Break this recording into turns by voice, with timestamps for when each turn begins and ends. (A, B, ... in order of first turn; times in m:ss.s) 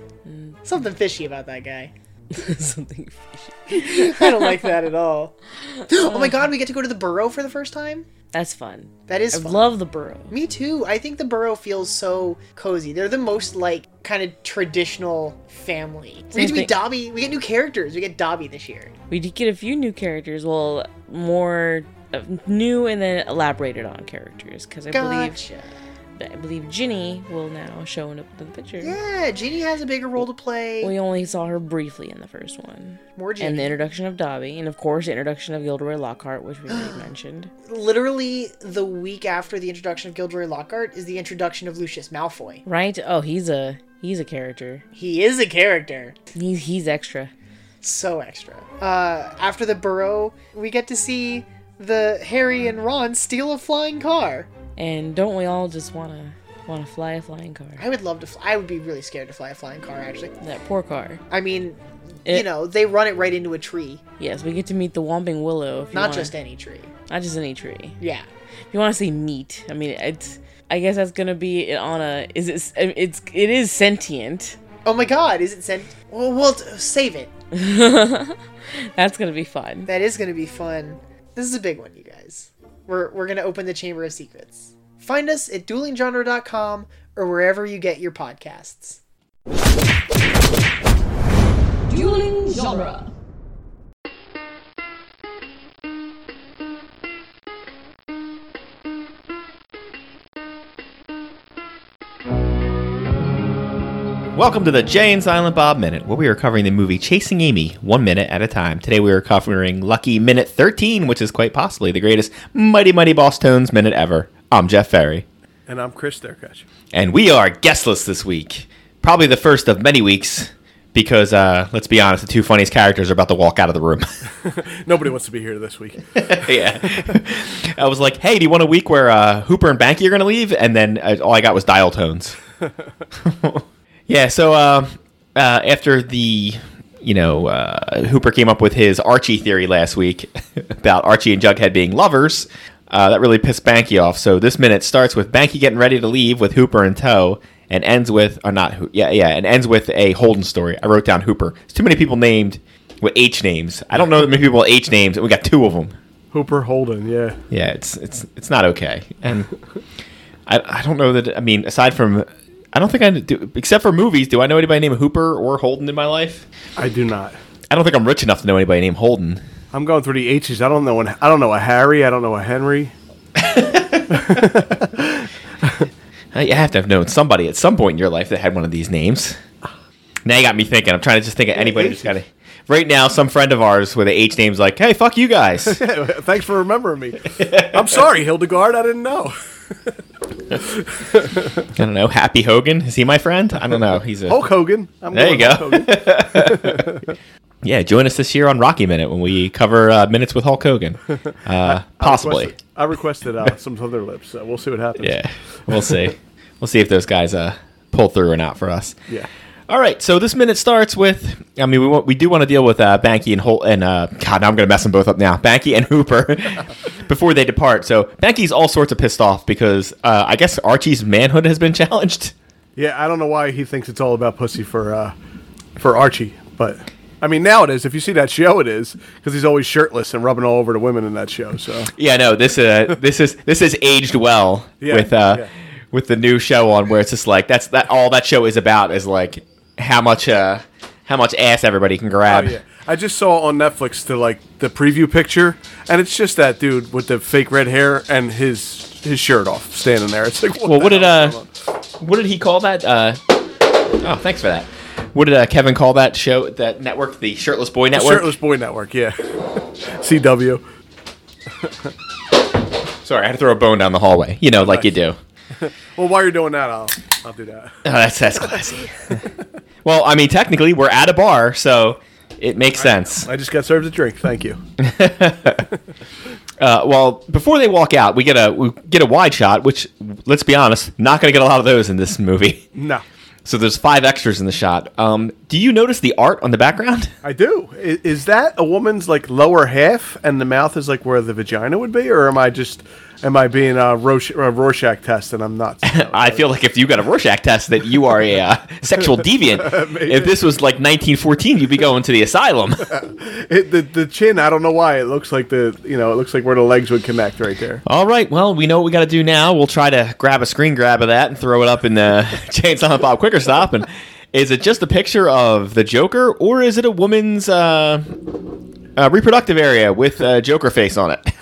0:00.2-0:00.6 A
0:00.6-0:01.9 B
0:02.3-0:04.8 A
0:03.7-0:05.3 B
0:05.9-0:08.1 B
0:05.9-0:06.5 A
0:08.3-0:10.3 A
0:09.1-0:09.7 B
0:10.3-0:18.9 B
0:16.3-0:16.7 A
0:19.1-0:25.4 A
0:24.9-0:25.7 B
0:26.2-0:29.0 A
0:28.8-0:30.9 B
0:30.8-0:37.5 A
0:33.2-0:33.7 B
0:36.7-0:37.0 B
0:37.6-0:42.6 B
0:42.6-0:44.8 A
0:45.0-0:46.2 B
0:46.3-0:47.3 A
0:47.8-0:54.5 B
0:54.8-0:57.8 A
0:57.8-1:00.3 B
1:00.4-1:01.2 A
1:01.3-1:04.0 B
1:04.2-1:06.3 A
1:05.9-1:06.9 B
1:07.1-1:08.0 A
1:08.0-1:08.2 B
1:08.7-1:14.6 A
1:14.8-1:17.3 B
1:17.5-1:18.4 A
1:18.9-1:19.9 A
1:19.8-1:29.0 B
1:44.3-1:55.2 C
1:55.7-1:56.6 D
1:56.9-2:04.0 C
2:04.4-2:06.1 D
2:06.2-2:12.3 C
2:13.2-2:35.9 C
2:36.3-2:37.4 D
2:37.5-2:39.5 C
2:40.5-2:46.4 C
2:46.8-2:47.4 D
2:47.7-2:49.4 C
2:49.7-2:52.9 D
2:53.4-2:54.2 C
2:54.1-2:55.9 D
2:56.3-2:59.4 C
3:00.2-3:05.8 C
3:01.5-3:02.1 D
3:05.6-3:10.0 D
3:10.5-3:11.6 D
3:11.8-3:14.4 C
3:14.3-3:17.1 D
3:15.1-3:16.8 C
3:17.6-3:22.5 C
3:21.6-3:25.2 D
3:25.0-3:28.9 C
3:29.7-3:42.3 C
3:42.8-3:45.1 D
3:45.8-3:51.9 D
3:51.9-4:02.5 C
3:54.8-3:55.5 D
4:02.3-4:11.5 D
4:10.6-4:11.4 C
4:12.0-4:13.2 C
4:14.0-4:18.3 C
4:17.9-4:20.6 D
4:21.6-4:21.9 D
4:23.0-4:25.2 C
4:24.6-4:24.9 D
4:25.5-4:27.8 D
4:27.8-4:28.9 C
4:29.8-4:33.3 C
4:32.8-4:34.6 D
4:34.8-4:35.6 C
4:36.6-4:42.6 C
4:42.7-4:43.0 D
4:43.4-4:47.1 C
4:47.2-4:56.4 D
4:55.8-5:03.0 C
4:59.5-5:00.3 D
5:02.9-5:07.8 D
5:07.8-5:18.4 C
5:19.0-5:21.3 C